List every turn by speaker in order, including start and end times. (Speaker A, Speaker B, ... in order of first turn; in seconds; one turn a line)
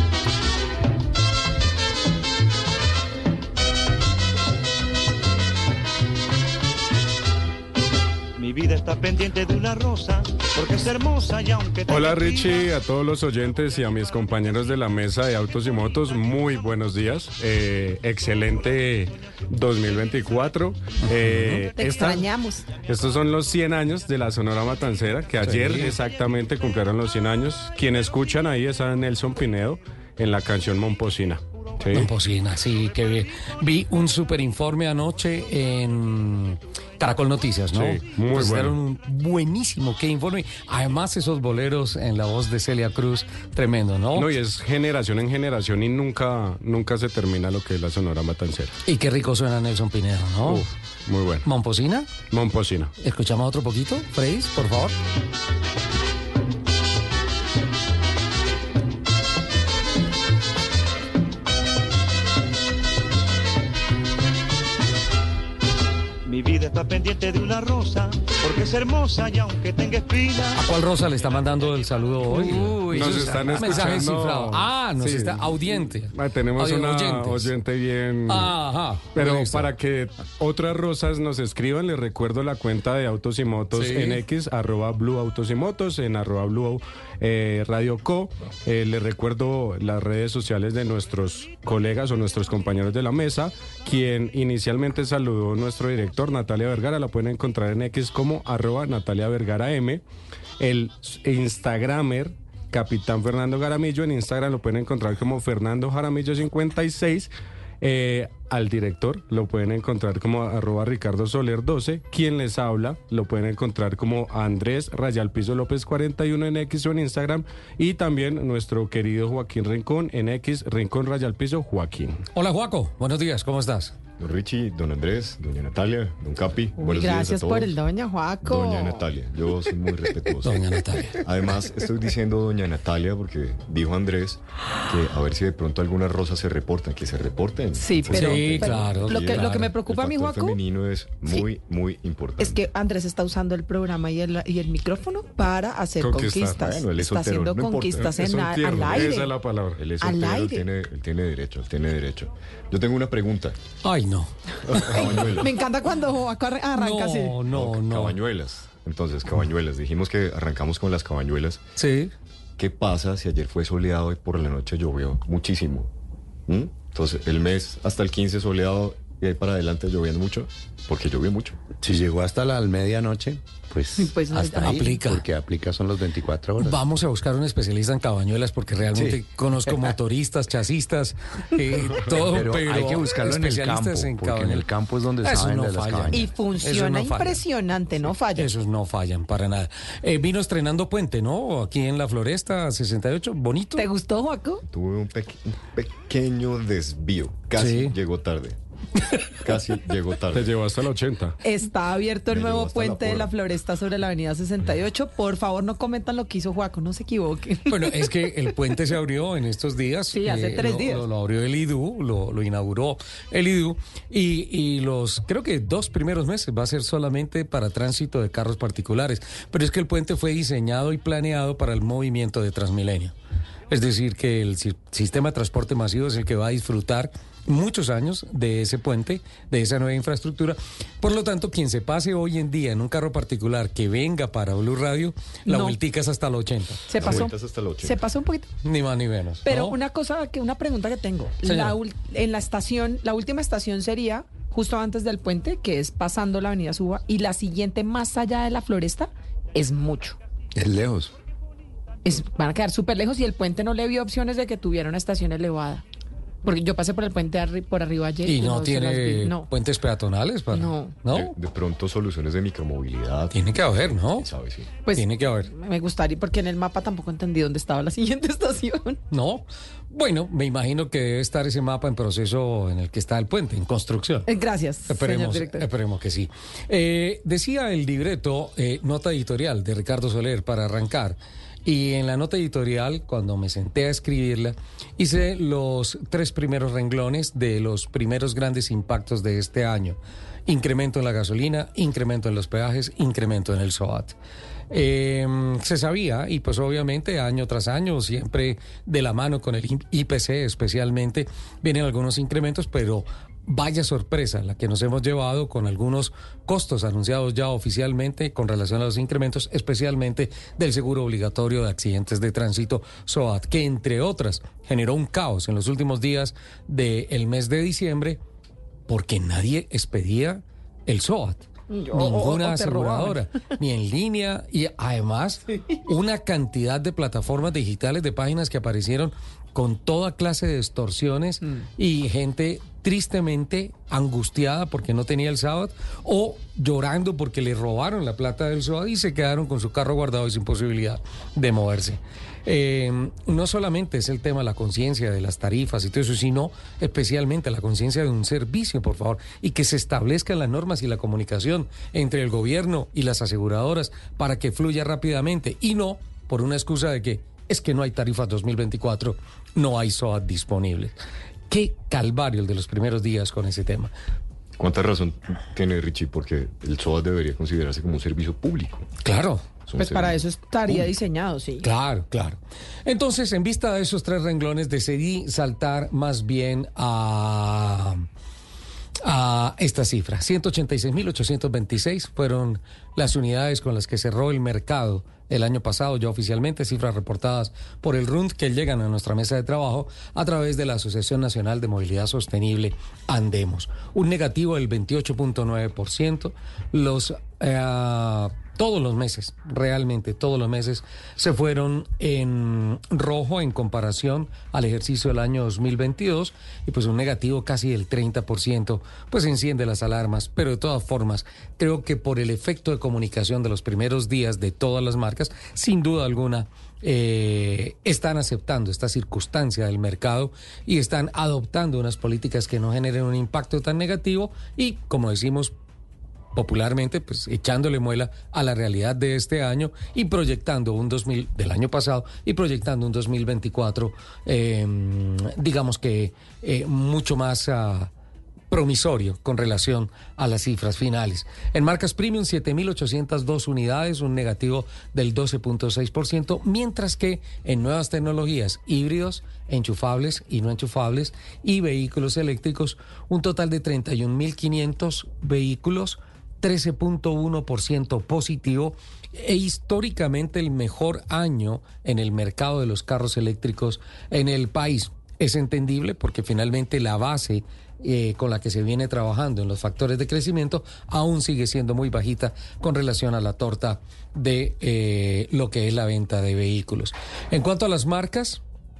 Speaker A: 8.4-12.8
Speaker B: 11.9-22.2
Speaker C: 21.1-21.7
Speaker D: 21.8-22.7
Speaker B: 22.8-32.1
Speaker C: 25.4-26.0
Speaker C: 31.9-44.3
Speaker B: 37.7-38.8
Speaker B: 44.1-48.8
Speaker C: 48.8-50.6
Speaker B: 50.4-51.4
Speaker C: 51.4-52.1
Speaker B: 52.3-52.9
Speaker C: 53.0-55.0
Speaker A: 66.2-72.3
Speaker C: 70.5-77.5
Speaker B: 72.3-78.5
Speaker C: 78.3-79.7
Speaker B: 79.1-100.0
Speaker C: 83.7-84.2
Speaker B: 100.6-122.2
Speaker C: 122.3-123.9
Speaker E: 124.2-127.7
Speaker D: 126.8-129.0
Speaker E: 128.4-142.6
Speaker C: 130.4-131.2
Speaker D: 137.8-140.6
Speaker C: 138.1-139.7
Speaker D: 142.4-149.3
Speaker B: 146.0-146.6
Speaker E: 146.6-148.1
Speaker B: 148.0-149.8
Speaker E: 149.8-153.6
Speaker D: 150.0-150.7
Speaker C: 153.8-155.0
Speaker E: 154.7-155.6
Speaker D: 154.9-157.4
Speaker C: 156.7-158.2
Speaker E: 157.5-161.6
Speaker C: 161.8-162.1
Speaker E: 162.6-165.9
Speaker E: 166.5-171.6
Speaker F: 171.8-176.8
Speaker D: 174.0-174.8
Speaker C: 174.5-175.2
Speaker C: 176.6-184.7
Speaker F: 178.9-179.9
Speaker F: 182.0-186.3
Speaker C: 185.2-187.4
Speaker D: 186.1-188.5
Speaker C: 188.3-193.8
Speaker D: 193.8-194.6
Speaker E: 194.7-198.6
Speaker C: 197.6-197.9
Speaker E: 199.4-200.6
Speaker B: 200.3-201.4
Speaker D: 201.4-208.5
Speaker E: 202.3-203.3
Speaker C: 207.7-223.1
Speaker D: 210.1-211.1
Speaker C: 223.7-237.2
Speaker D: 235.5-235.8
Speaker D: 236.9-238.5
Speaker E: 236.9-238.0
Speaker C: 238.6-239.8
Speaker D: 239.4-250.2
Speaker C: 241.4-241.8
Speaker F: 250.5-251.1
Speaker D: 252.0-255.8
Speaker D: 256.4-259.5
Speaker C: 258.2-261.3
Speaker D: 260.5-261.0
Speaker E: 261.1-264.7
Speaker C: 263.3-264.3
Speaker D: 264.8-269.0
Speaker C: 264.9-265.5
Speaker C: 269.1-274.3
Speaker D: 274.3-275.6
Speaker C: 274.9-294.1
Speaker C: 294.7-318.2
Speaker C: 318.9-360.9
Speaker D: 321.7-323.4
Speaker C: 361.5-363.9
Speaker E: 364.6-368.8
Speaker C: 369.0-369.4
Speaker E: 369.7-370.2
Speaker D: 369.8-371.6
Speaker C: 371.6-378.0
Speaker C: 379.0-425.5
Speaker C: 426.3-437.9
Speaker C: 438.5-478.4